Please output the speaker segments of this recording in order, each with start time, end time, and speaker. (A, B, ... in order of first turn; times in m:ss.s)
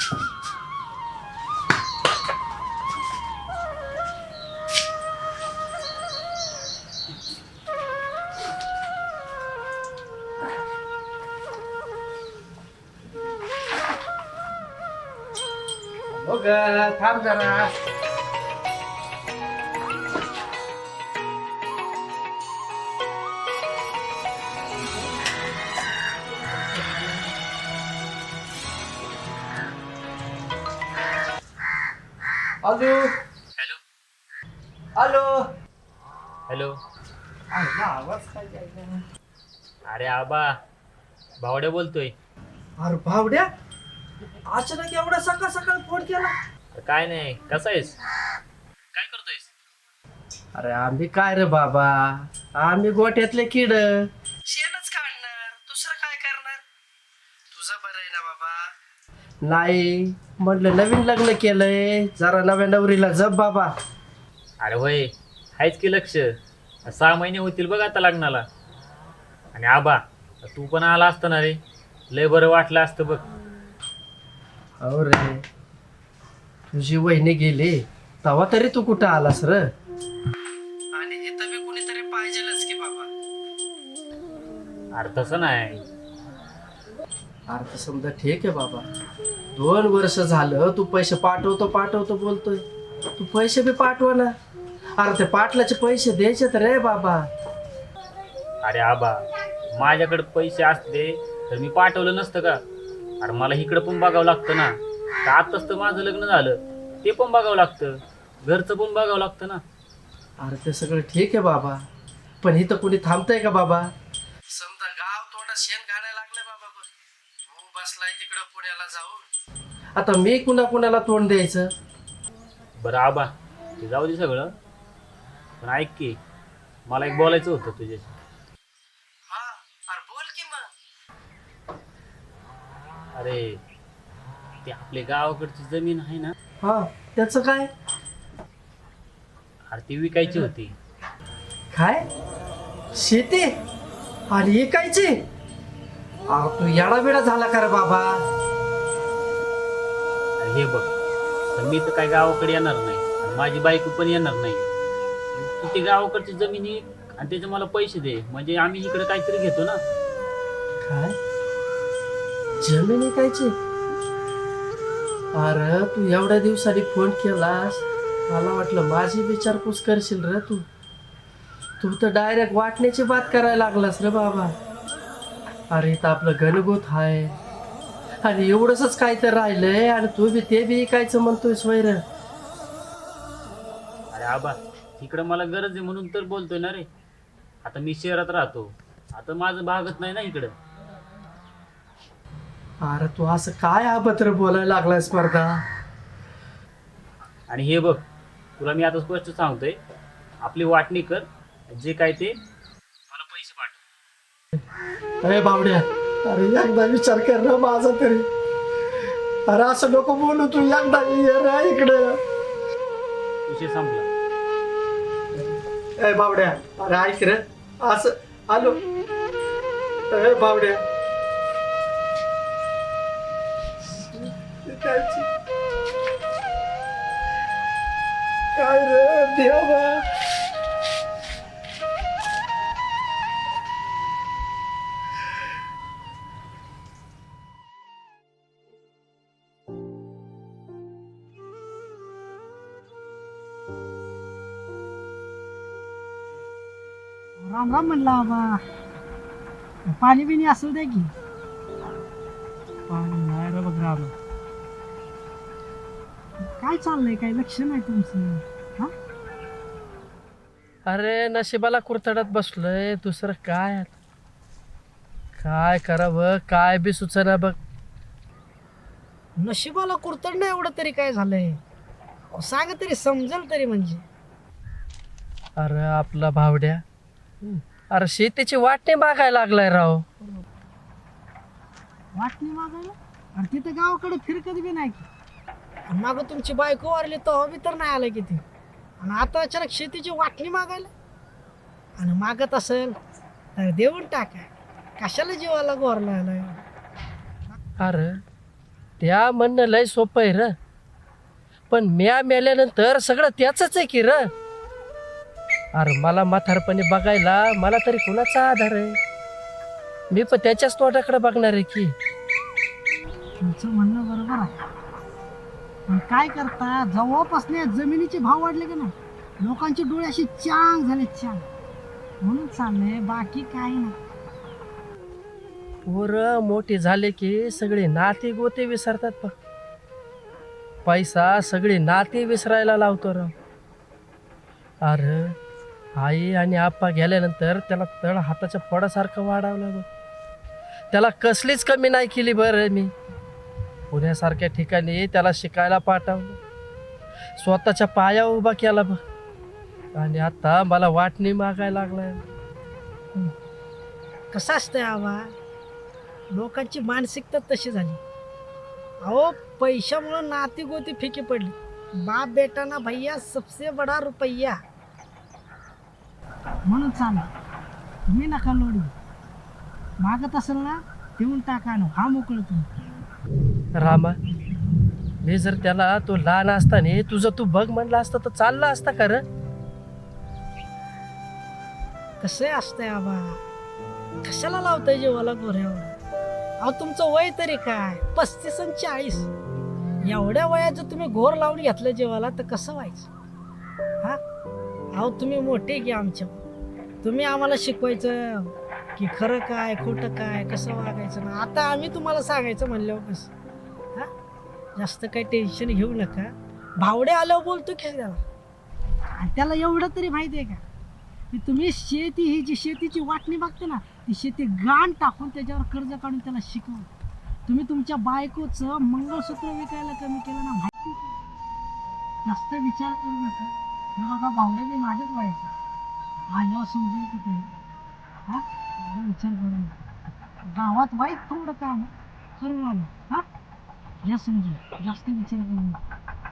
0:16.1-0:17.7 A
0:26.4-0:27.3 A
0:32.6-0:33.1 A
0:35.0-0:35.5 A
0:36.5-0:36.8 B
0:37.5-0:39.0 A
0:39.9-0:40.5 B
0:41.4-0:42.1 B
0:42.8-0:43.5 A
0:44.5-0:46.4 A
0:46.7-0:48.0 B
0:48.9-0:49.5 B
0:50.6-0:56.6 A
0:57.5-0:58.7 A
0:59.5-1:03.7 A
1:04.6-1:06.2 B
1:06.9-1:08.4 B
1:09.5-1:11.6 B
1:12.1-1:13.2 B
1:14.8-1:15.4 A
1:16.7-1:19.7 A
1:21.0-1:23.1 A
1:25.0-1:25.8 B
1:27.5-1:28.9 A
1:29.6-1:32.6 A
1:33.2-1:34.3 A
1:35.0-1:37.2 A
1:38.6-1:39.2 B
1:39.8-1:42.6 B
1:43.2-1:44.7 B
1:45.3-1:49.6 B
1:50.4-1:51.8 A
1:52.4-1:53.9 A
1:54.5-1:56.9 A
1:57.5-1:59.3 A
2:00.0-2:01.7 A
2:02.8-2:03.3 B
2:03.8-2:04.5 B
2:05.6-2:06.2 B
2:06.9-2:08.1 B
2:09.3-2:10.7 A
2:13.2-2:13.6 B
2:14.6-2:16.3 B
2:16.6-2:17.7 A
2:19.7-2:20.7 B
2:20.2-2:20.5 A
2:21.7-2:22.0 A
2:22.9-2:23.5 A
2:24.3-2:25.2 A
2:26.3-2:28.2 A
2:30.4-2:30.9 B
2:31.5-2:34.7 B
2:35.4-2:39.8 B
2:40.8-2:41.2 A
2:42.6-2:43.6 A
2:45.4-2:50.6 A
2:51.8-2:54.6 A
2:55.7-2:57.3 A
2:58.2-3:02.0 A
3:04.1-3:06.9 B
3:07.6-3:10.5 B
3:12.8-3:15.6 A
3:17.5-3:18.0 B
3:18.6-3:19.8 B
3:20.4-3:22.3 B
3:23.1-3:23.8 B
3:25.2-3:28.3 A
3:29.5-3:32.2 A
3:33.5-3:34.1 B
3:35.4-3:38.8 A
3:40.1-3:40.8 A
3:44.0-3:45.3 A
3:48.6-3:50.0 A
4:07.4-4:08.6 C
4:09.9-4:11.1 C
4:12.9-4:14.1 A
4:16.6-4:18.9 C
4:20.9-4:23.9 A
4:25.4-4:27.6 A
4:29.4-4:31.6 C
4:32.3-4:34.0 C
4:35.6-4:36.8 A
4:37.9-4:40.0 A
4:42.2-4:45.1 C
4:45.9-4:48.4 C
4:49.0-4:50.9 C
4:52.0-4:53.0 C
4:53.6-4:54.5 C
4:55.0-4:56.6 C
4:57.8-4:58.2 A
4:59.0-5:00.5 A
5:01.7-5:04.3 A
5:05.8-5:09.0 A
5:10.1-5:11.9 A
5:13.4-5:14.7 C
5:15.9-5:21.5 C
5:22.2-5:24.0 C
5:25.9-5:29.3 A
5:30.8-5:33.3 A
5:34.8-5:35.4 A
5:36.0-5:39.9 A
5:40.9-5:42.9 A
5:43.9-5:46.4 A
5:47.4-5:49.0 A
5:50.0-5:52.2 A
5:54.3-5:55.2 C
5:56.3-5:58.0 C
5:59.0-6:04.6 C
6:06.6-6:07.3 C
6:08.1-6:08.9 C
6:10.0-6:12.7 C
6:13.8-6:14.2 A
6:15.2-6:19.2 A
6:22.2-6:23.4 C
6:24.2-6:26.0 C
6:26.6-6:29.3 C
6:30.0-6:33.1 C
6:34.9-6:36.4 C
6:37.0-6:43.3 C
6:44.8-6:48.2 C
6:49.2-6:50.6 C
6:51.3-6:56.9 C
6:57.5-7:01.1 C
7:02.2-7:05.5 C
7:06.3-7:07.5 C
7:08.3-7:09.8 C
7:10.4-7:13.3 C
7:14.0-7:15.8 C